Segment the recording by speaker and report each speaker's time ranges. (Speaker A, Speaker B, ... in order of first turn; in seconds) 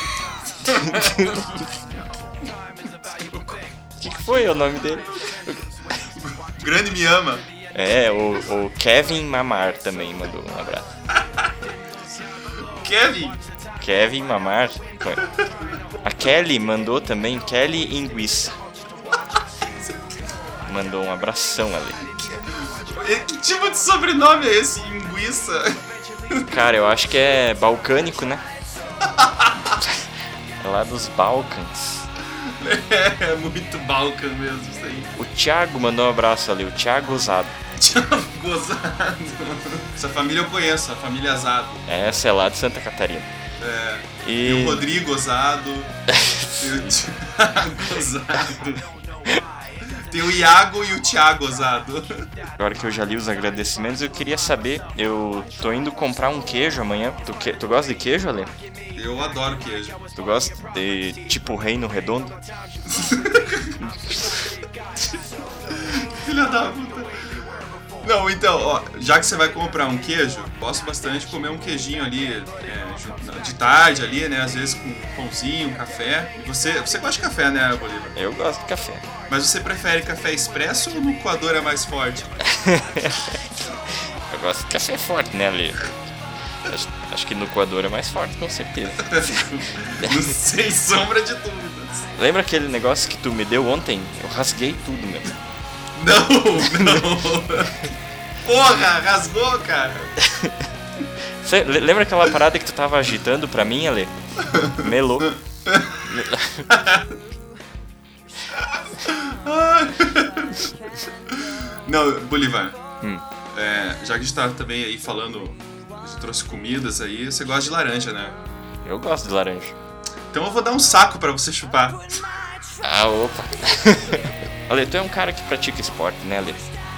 Speaker A: 0.7-1.5, 3.0-3.6, 6.2-7.5, 12.7-13.4, 22.7-25.7, 26.3-26.6, 29.1-29.8, 32.4-35.1, 37.8-41.9, 43.6-45.9, 46.6-48.9, 50.1-52.3, 59.0-60.0, 62.9-63.8, 65.7-67.1, 68.0-78.2, 79.3-82.4, 89.0-92.1, 96.0-97.9, 98.4-100.1, 104.5-104.9, 105.7-105.9, 106.7-107.1, 109.0-110.6, 111.3-112.8, 113.5-118.4, 120.3-122.0
Speaker B: 0.9-1.4, 4.0-5.6, 7.7-10.9, 13.8-15.2, 16.0-18.6, 20.6-22.0, 26.5-28.4, 30.6-32.1, 35.2-37.6, 41.9-43.3, 44.2-44.9, 46.1-47.0, 52.6-58.5, 60.2-62.4, 63.8-64.4, 78.2-79.1, 82.5-83.3, 84.3-85.9, 86.6-89.5, 92.2-95.3, 96.7-97.1, 100.2-100.5, 101.4-104.2, 104.7-105.3, 106.0-106.7, 118.8-119.8, 122.8-126.6